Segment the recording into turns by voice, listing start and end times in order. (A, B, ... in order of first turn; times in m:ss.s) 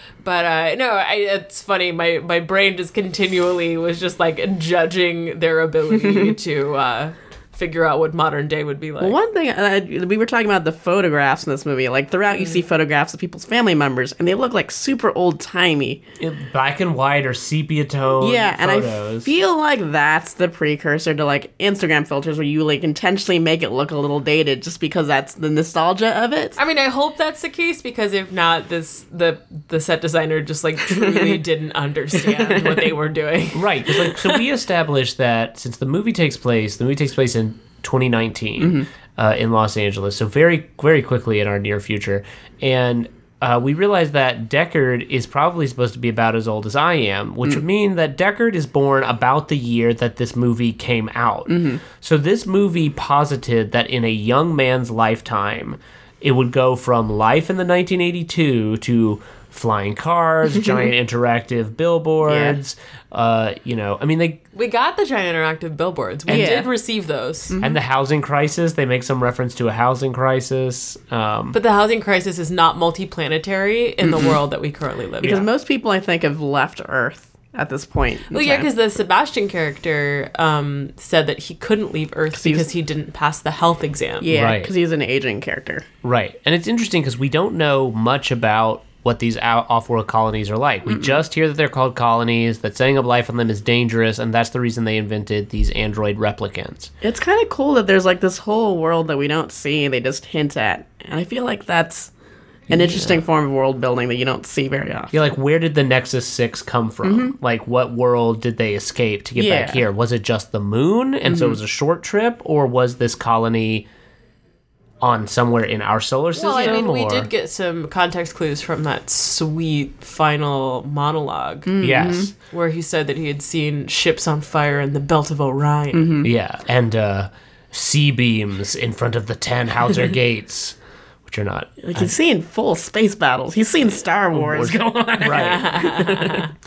0:00.2-0:09.2 A
0:06.0-0:06.3 B
0:09.0-0:16.0 B
0:16.2-0:19.3 C
0:18.2-0:26.6 B
0:26.6-0:34.4 A
0:30.9-0:31.4 B
0:32.2-0:32.8 B
0:33.5-1:04.4 C
0:38.6-0:38.9 B
0:51.5-0:51.8 B
1:02.2-1:02.6 B
1:04.5-1:07.6 A
1:06.3-1:06.6 C
1:06.3-1:06.7 B
1:07.5-1:07.8 B
1:07.6-1:11.6 C
1:11.5-1:15.4 A
1:14.0-1:14.4 B
1:15.2-1:18.7 B
1:18.3-1:24.3 A
1:22.4-1:22.7 B
1:24.2-1:25.8 B
1:24.3-1:24.7 C
1:26.0-1:36.9 C
1:30.9-1:31.2 B
1:37.0-1:42.1 B
1:42.7-1:43.2 C
1:42.7-1:45.1 B
1:45.1-1:53.9 C
1:47.0-1:47.3 B
1:49.4-1:49.8 B
1:51.2-1:51.6 B
1:55.0-1:57.3 C
1:56.3-2:01.7 A
2:01.7-2:02.3 B
2:01.8-2:02.3 C
2:02.5-2:06.1 A
2:05.9-2:06.3 B
2:06.2-2:12.1 C
2:11.8-2:16.4 B
2:14.3-2:15.8 C
2:15.2-2:16.5 A